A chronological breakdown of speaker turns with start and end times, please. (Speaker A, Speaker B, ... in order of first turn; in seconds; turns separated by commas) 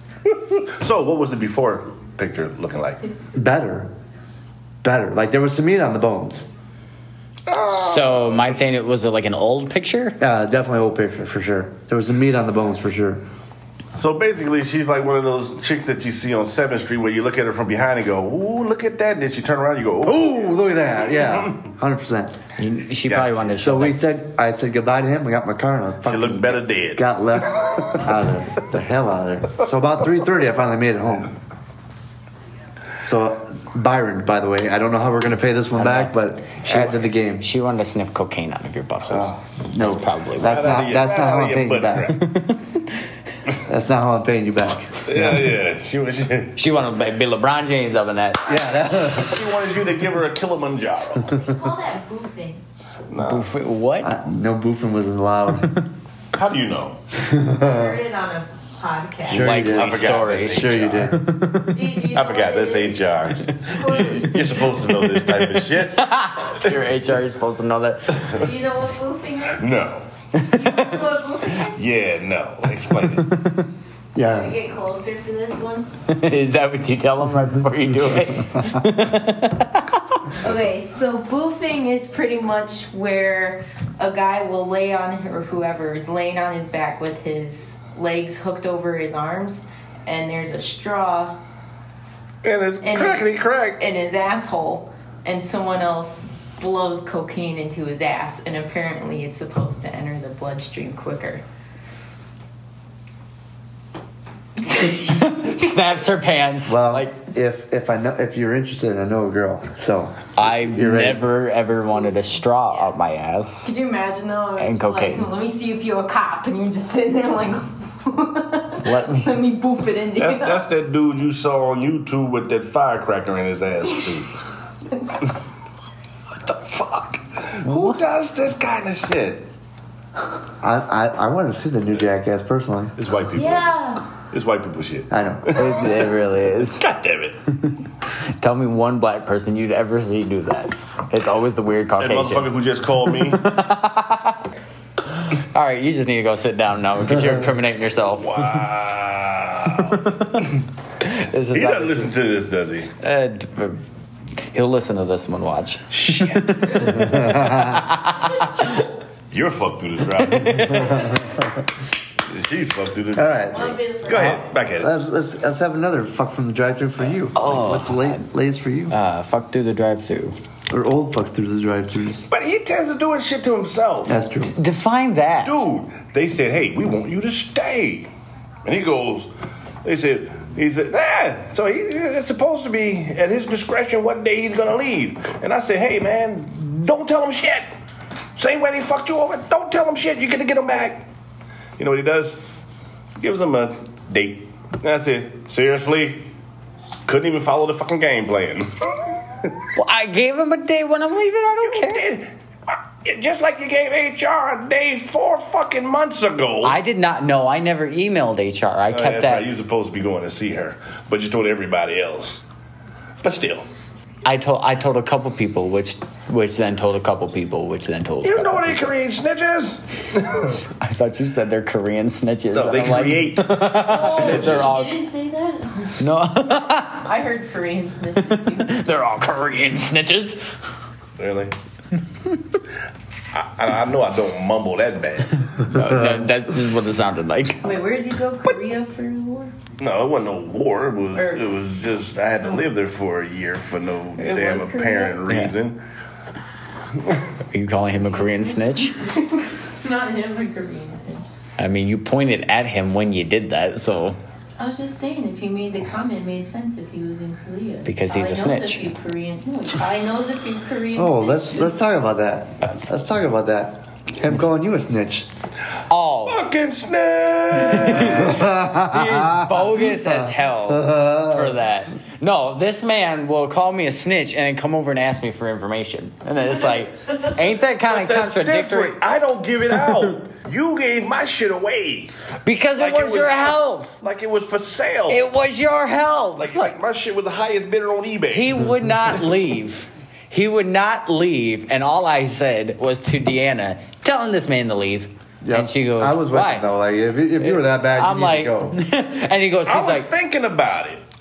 Speaker A: 0.3-3.0, Speaker B: 3.3-3.9, Speaker B: 4.8-6.5, Speaker A: 7.5-8.7, Speaker C: 7.7-10.2, Speaker B: 10.2-13.2, Speaker A: 13.9-20.4, Speaker B: 20.0-22.4, Speaker A: 21.1-21.5, Speaker C: 22.6-24.0, Speaker A: 23.1-23.5, Speaker B: 23.6-31.3, Speaker A: 26.0-27.0, Speaker B: 33.0-37.4, Speaker C: 35.8-40.8, Speaker B: 39.1-42.2, Speaker A: 40.4-42.2, Speaker C: 42.2-42.6, Speaker B: 43.6-45.5, Speaker A: 45.0-46.6, Speaker C: 46.5-48.6, Speaker B: 48.5-49.5, Speaker A: 49.1-51.4, Speaker D: 51.3-52.6, Speaker A: 53.1-53.5, Speaker C: 53.2-54.1, Speaker B: 54.0-55.7, Speaker A: 56.3-57.0, Speaker B: 57.1-58.0, Speaker D: 57.6-59.5, Speaker B: 59.2-61.2, Speaker C: 59.3-61.7, Speaker A: 59.4-61.1, Speaker D: 61.7-64.6, Speaker A: 62.1-66.7, Speaker C: 65.6-68.4, Speaker D: 68.2-69.7, Speaker A: 69.5-70.0, Speaker C: 70.3-70.9, Speaker D: 70.4-71.8, Speaker A: 71.7-73.3, Speaker B: 74.1-74.5, Speaker D: 74.2-75.9, Speaker C: 76.1-80.2, Speaker D: 80.4-91.4, Speaker A: 92.4-93.8, Speaker D: 92.8-101.4, Speaker C: 104.7-107.1, Speaker B: 106.7-111.2, Speaker C: 110.3-113.7, Speaker D: 113.6-120.7, Speaker C: 114.6-115.3, Speaker C: 118.8-119.4, Speaker A: 120.2-124.3, Speaker A: 126.3-129.4, Speaker B: 130.6-132.9, Speaker A: 133.0-136.1, Speaker D: 133.3-134.0, Speaker B: 135.1-135.9, Speaker C: 135.5-136.8, Speaker A: 136.8-137.4, Speaker C: 138.4-142.5, Speaker A: 142.0-143.4, Speaker C: 143.1-144.4, Speaker C: 145.2-148.6, Speaker A: 148.1-150.6, Speaker C: 149.9-150.2, Speaker C: 151.0-152.1, Speaker A: 151.5-152.9, Speaker C: 153.0-153.8, Speaker C: 154.5-158.8, Speaker A: 155.9-156.9, Speaker B: 156.8-157.9, Speaker A: 159.3-161.2, Speaker C: 160.3-160.8, Speaker B: 160.6-161.5, Speaker A: 162.3-164.9, Speaker B: 163.1-168.9, Speaker D: 163.5-164.4, Speaker C: 167.3-168.2, Speaker C: 168.9-170.3, Speaker B: 170.7-172.3, Speaker A: 172.3-174.1, Speaker B: 174.1-174.5, Speaker C: 174.5-175.6, Speaker A: 175.4-178.1, Speaker A: 178.6-179.3, Speaker A: 179.8-187.7, Speaker A: 188.4-191.0, Speaker A: 191.8-192.4, Speaker A: 193.2-196.3, Speaker A: 197.1-199.5, Speaker C: 199.7-202.1, Speaker A: 201.6-206.8, Speaker C: 206.6-209.5, Speaker A: 208.9-212.4, Speaker A: 213.2-213.7, Speaker C: 214.2-218.8, Speaker A: 218.2-220.6, Speaker C: 220.8-225.0, Speaker A: 222.5-224.7, Speaker D: 223.7-226.0, Speaker C: 226.0-227.0, Speaker D: 226.9-228.7, Speaker C: 228.3-230.4, Speaker A: 231.2-231.5, Speaker A: 233.3-235.5, Speaker C: 235.7-237.6, Speaker D: 237.6-239.5, Speaker A: 239.8-245.8, Speaker D: 241.1-241.4, Speaker D: 244.2-245.2, Speaker C: 245.3-245.5, Speaker C: 247.5-248.9, Speaker D: 248.1-251.3, Speaker C: 251.6-254.2, Speaker D: 254.6-261.7, Speaker C: 257.8-258.9, Speaker B: 260.9-265.3, Speaker C: 262.6-262.9, Speaker C: 265.9-266.4, Speaker A: 266.2-268.3, Speaker C: 267.6-279.0, Speaker B: 268.0-271.6, Speaker A: 277.9-282.1, Speaker C: 282.4-283.9, Speaker A: 282.8-285.2, Speaker C: 285.1-286.7, Speaker A: 286.4-288.6, Speaker C: 288.3-296.7, Speaker B: 295.4-298.8, Speaker C: 297.4-300.1, Speaker A: 299.7-301.0